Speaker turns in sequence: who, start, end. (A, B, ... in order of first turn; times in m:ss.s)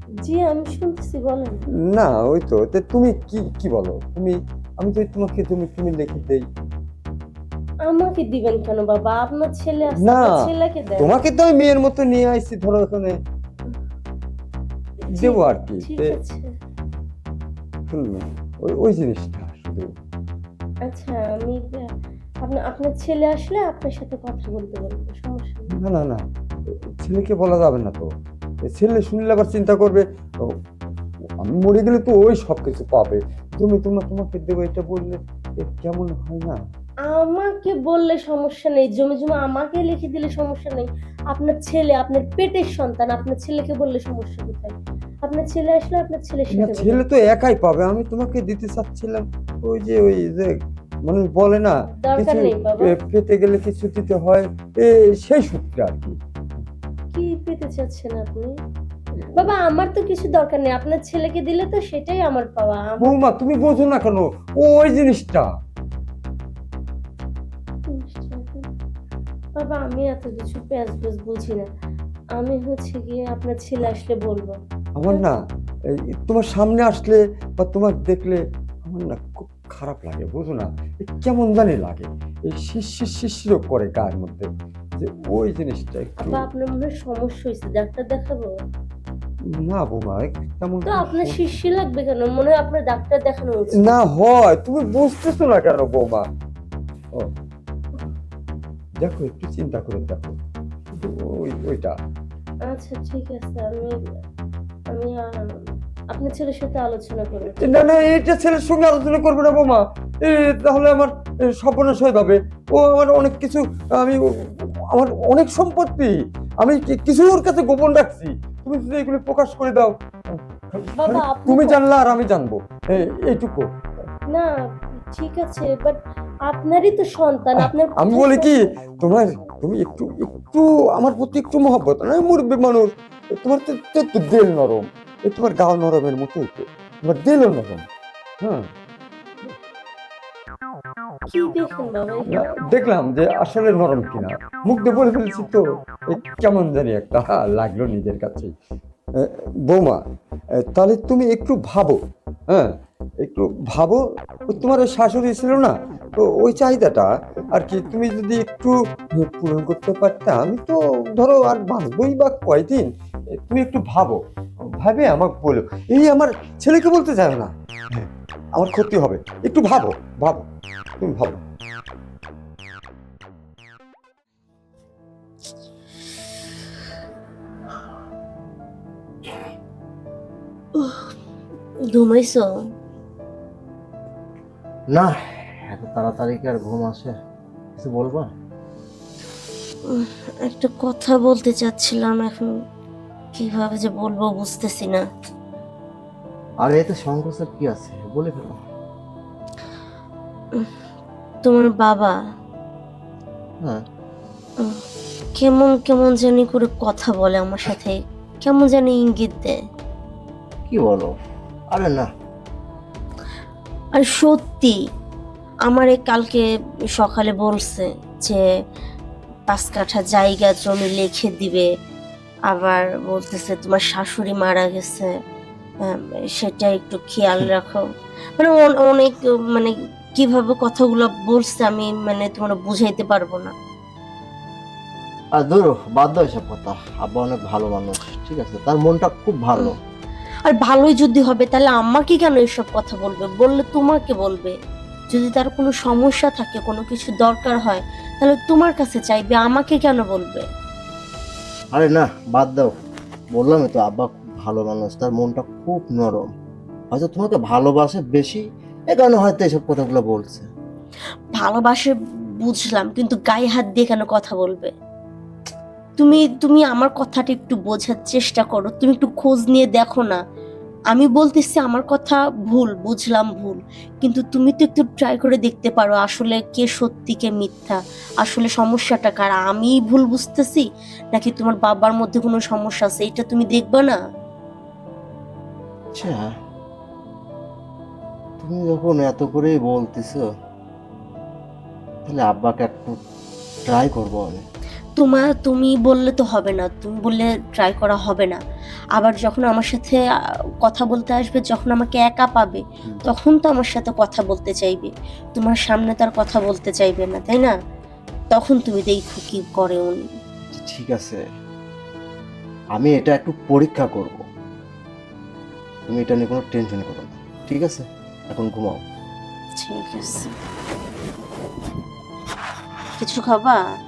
0:00.2-0:01.6 A
0:01.9-0:06.5 B
0:07.9-0:11.1 A
0:10.0-0:13.2 B
0:15.1-0:16.5 A
0:15.2-0:16.2 B
0:17.9-0:19.9 B
0:20.8-0:21.9 A
0:22.4-0:25.7 A
0:25.7-0:26.3 B
0:26.9-0:28.1 B
0:28.6-0:30.5 B
0:31.4-0:36.6 B
0:37.1-0:47.0 A
0:46.5-0:56.2 B
0:51.9-0:52.9 A
0:57.1-0:58.5 A
0:59.3-1:03.1 A
1:03.0-1:05.5 B
1:07.9-1:08.7 A
1:09.6-1:11.7 A
1:12.4-1:14.5 A
1:15.0-1:15.4 B
1:15.9-1:26.5 B
1:26.2-1:28.5 A
1:29.6-1:31.6 B
1:30.9-1:33.9 A
1:33.8-1:36.3 B
1:39.0-1:40.4 B
1:41.0-1:42.0 B
1:42.7-1:43.9 A
1:44.9-1:47.7 A
1:47.5-2:03.7 B
2:00.9-2:01.8 A
2:05.1-2:08.7 A
2:07.6-2:17.8 B
2:18.4-2:18.7 B
2:21.3-2:22.4 A
2:22.3-2:28.5 B
2:29.2-2:30.0 B
2:30.7-2:44.2 B
2:44.8-2:51.4 B
3:00.8-3:01.1 C
3:01.9-3:02.5 C
3:04.9-3:07.1 D
3:07.8-3:08.3 D
3:09.9-3:12.5 C
3:13.4-3:15.0 C
3:16.6-3:18.6 D
3:21.4-3:22.1 C
3:25.4-3:29.6 C
3:30.7-3:31.1 D
3:31.7-3:32.1 D
3:33.9-3:34.8 C
3:35.7-3:36.4 C
3:37.0-3:38.4 C
3:39.5-3:41.7 C
3:42.5-3:45.1 C
3:45.8-3:47.8 C
3:48.4-3:53.5 C
3:55.4-3:59.8 D
4:00.4-4:04.5 C
4:05.1-4:10.4 C
4:11.7-4:12.7 D
4:13.3-4:16.3 D
4:16.9-4:20.5 D
4:21.4-4:24.7 C
4:26.0-4:30.2 C
4:30.9-4:44.0 C
4:45.9-4:46.3 D
4:48.4-4:50.3 D
4:52.0-4:53.0 D
4:53.7-4:54.4 D
4:55.0-4:58.4 C
4:59.0-5:00.0 C
5:00.6-5:07.5 C
5:08.3-5:10.0 C
5:10.5-5:11.2 D
5:12.7-5:14.2 D
5:15.9-5:18.8 D
5:19.6-5:20.3 C
5:23.0-5:23.6 C